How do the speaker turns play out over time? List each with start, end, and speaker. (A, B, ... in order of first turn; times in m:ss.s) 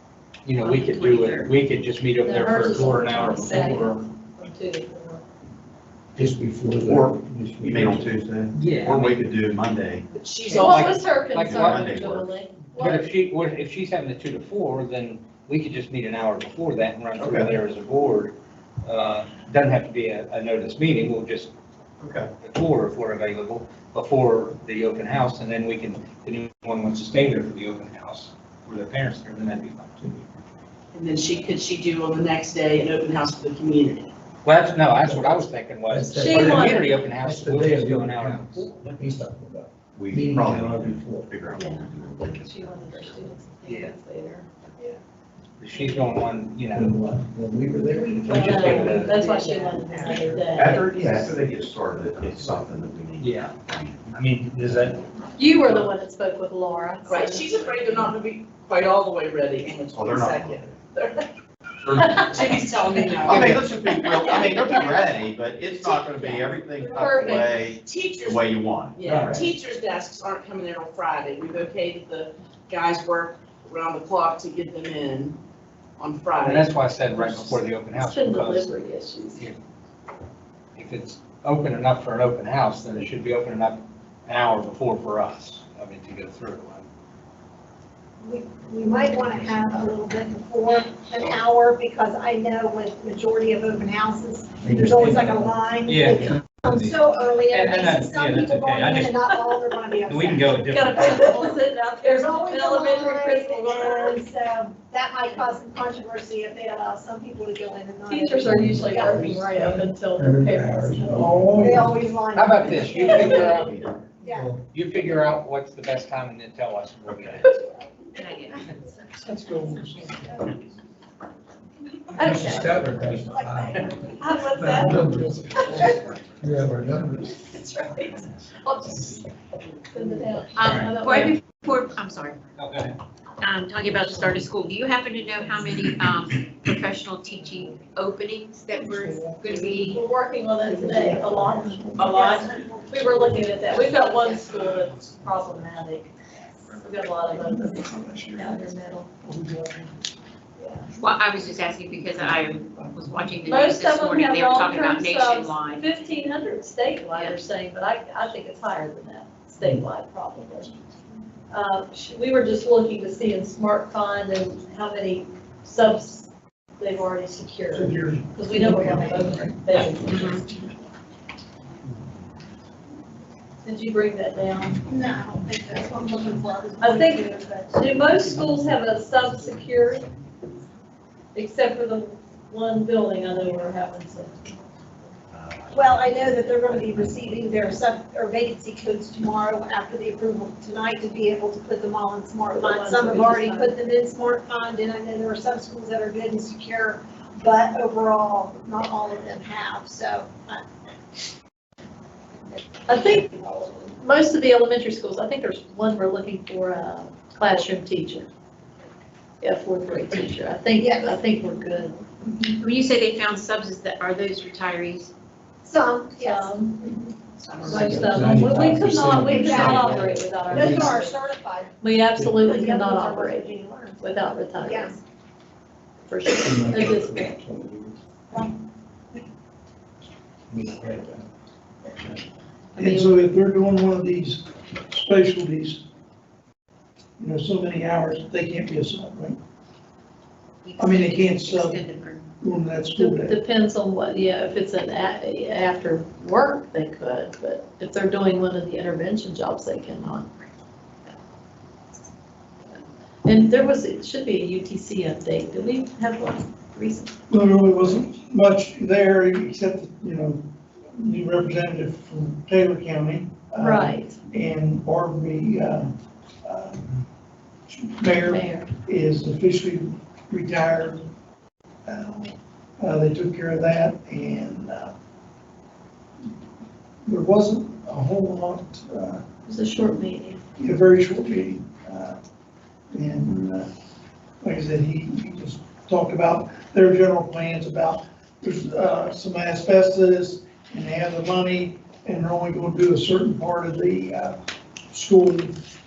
0:00.4-0:04.0 A
0:00.6-0:01.5 B
0:02.2-0:05.2 C
0:06.2-0:08.1 D
0:06.4-0:07.9 B
0:06.8-0:10.0 E
0:08.5-0:09.2 A
0:10.1-0:11.0 F
0:10.5-0:11.9 A
0:10.5-0:13.1 C
0:11.4-0:12.4 E
0:12.7-0:21.5 A
0:17.2-0:17.6 E
0:22.0-0:22.3 E
0:22.4-0:30.3 A
0:30.9-0:34.1 F
0:34.4-0:38.8 A
0:35.0-0:35.4 D
0:35.9-0:41.2 D
0:36.2-0:36.9 C
0:37.5-0:38.7 B
0:39.9-0:43.2 E
0:40.2-0:40.9 B
0:41.5-0:44.5 C
0:43.6-0:43.9 A
0:45.6-0:47.0 A
0:45.7-0:46.1 C
0:46.8-0:48.6 D
0:47.9-0:48.4 B
0:48.2-0:50.9 C
0:48.3-0:49.2 A
0:49.1-0:50.2 F
0:50.5-0:54.0 E
0:53.2-0:55.9 A
0:55.4-0:57.5 C
0:57.0-1:01.3 F
0:59.9-1:00.8 E
1:01.8-1:09.5 E
1:01.9-1:03.6 F
1:04.2-1:04.5 C
1:04.2-1:04.8 F
1:06.8-1:07.6 C
1:07.8-1:15.4 F
1:16.0-1:17.6 F
1:16.4-1:18.7 A
1:17.9-1:19.4 C
1:20.8-1:26.8 A
1:28.2-1:41.1 G
1:35.8-1:36.9 A
1:37.5-1:39.3 A
1:40.0-1:41.3 A
1:40.7-1:44.2 C
1:42.0-1:49.4 G
1:48.1-1:51.2 C
1:48.5-1:51.9 D
1:51.1-1:51.8 H
1:51.6-1:54.5 G
1:52.3-1:53.8 A
1:53.5-1:53.9 E
1:54.3-1:54.6 D
1:54.7-1:57.6 A
1:57.1-1:57.4 E
1:58.2-1:58.6 B
1:59.2-2:00.6 H
2:02.1-2:02.8 C
2:02.2-2:04.9 G
2:02.2-2:03.8 D
2:02.3-2:03.8 B
2:04.2-2:06.0 C
2:04.6-2:07.2 D
2:04.9-2:05.2 B
2:06.4-2:07.0 B
2:07.3-2:09.2 C
2:09.9-2:11.4 C
2:10.6-2:12.4 B
2:10.6-2:10.9 A
2:12.6-2:13.0 A
2:13.4-2:20.0 B
2:14.1-2:14.3 H
2:17.3-2:17.8 H
2:18.7-2:20.0 H
2:19.8-2:26.1 C
2:20.6-2:23.9 H
2:22.0-2:24.4 G
2:24.5-2:25.3 H
2:26.7-2:29.1 C
2:27.2-2:30.0 H
2:30.6-2:30.8 C
2:31.0-2:35.8 B
2:31.0-2:33.4 H
2:33.4-2:40.7 C
2:41.5-2:50.7 C
2:47.7-2:50.1 H
2:50.1-2:50.4 B
2:53.6-2:54.8 C
2:54.8-2:57.7 G
2:56.8-3:00.1 C
3:01.3-3:04.5 C
3:05.3-3:05.9 E
3:05.7-3:20.6 G
3:12.6-3:13.8 C
3:22.9-3:23.4 C
3:23.4-3:23.8 G
3:23.9-3:28.3 C
3:29.4-3:32.0 C
3:30.8-3:31.2 G
3:32.6-3:35.1 B
3:35.6-3:37.9 G
3:36.2-3:36.7 C
3:37.5-3:40.8 B
3:37.6-3:41.1 C
3:37.8-3:39.9 D
3:39.2-3:44.0 G
3:41.8-3:45.0 C
3:44.6-3:45.0 G
3:46.0-3:47.3 C
3:46.5-3:47.9 D
3:46.7-3:47.3 B
3:50.5-3:51.2 D
3:52.7-3:53.2 C
3:52.8-3:55.8 H
3:57.2-3:59.4 H
4:00.6-4:02.2 B
4:00.8-4:01.8 H
4:02.4-4:03.4 H
4:03.0-4:10.3 C
4:12.7-4:17.1 C
4:17.3-4:27.1 H
4:23.6-4:24.2 C
4:27.7-4:31.1 H
4:28.2-4:28.7 C
4:31.8-4:34.9 H
4:37.0-4:39.2 H
4:39.4-4:40.4 C
4:40.6-4:42.2 H
4:42.9-4:43.7 H
4:44.4-4:54.4 H
4:54.9-4:55.6 H